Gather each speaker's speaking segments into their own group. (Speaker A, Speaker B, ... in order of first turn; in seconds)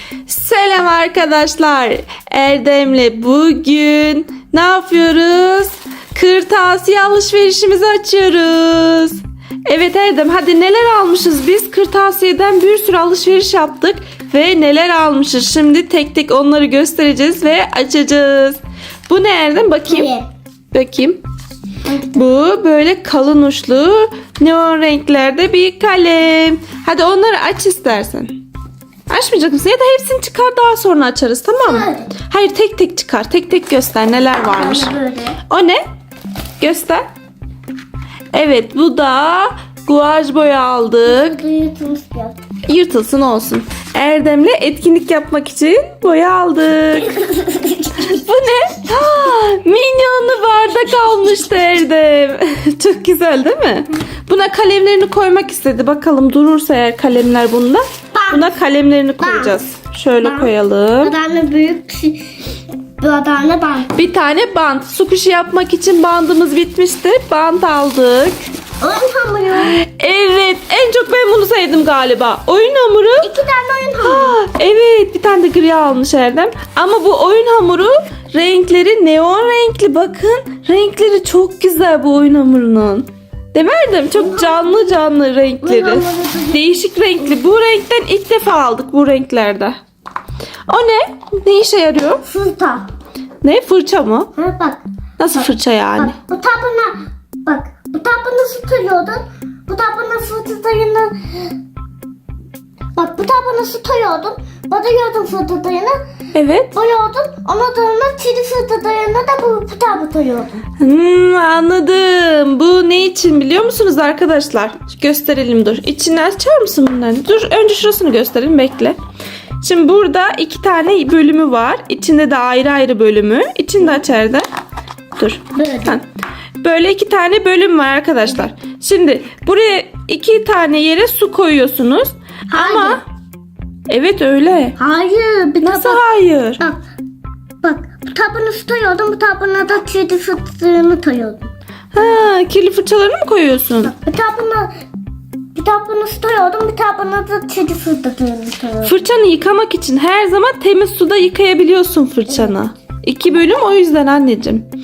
Speaker A: 0.3-20.1, 20.7-21.2, 22.1-28.3, 29.1-34.9, 35.5-35.8, 36.6-37.0, 38.3-41.4, 42.7-47.1, 48.1-61.1, 63.9-68.3, 69.7-73.3, 74.0-89.8, 90.7-92.2, 93.4-94.3, 95.2-96.1, 106.3-106.7, 110.8-119.0, 119.6-124.4, 125.2-126.0, 126.6-133.0, 133.9-134.8, 135.6-136.6, 141.9-143.9, 148.8-154.7
Speaker B: 19.9-20.3, 21.9-22.2, 31.6-32.1, 34.4-35.4, 41.0-42.4, 47.0-48.2, 58.1-58.5, 59.2-59.6, 60.2-62.4, 63.0-63.9, 68.8-69.8, 73.2-74.3, 84.1-84.9, 85.6-86.6, 92.2-92.8, 94.4-94.8, 96.0-101.5, 102.9-105.9, 106.7-110.6, 125.5-126.0, 132.5-133.0, 134.8-136.0, 137.6-141.5, 143.8-144.7, 145.5-149.0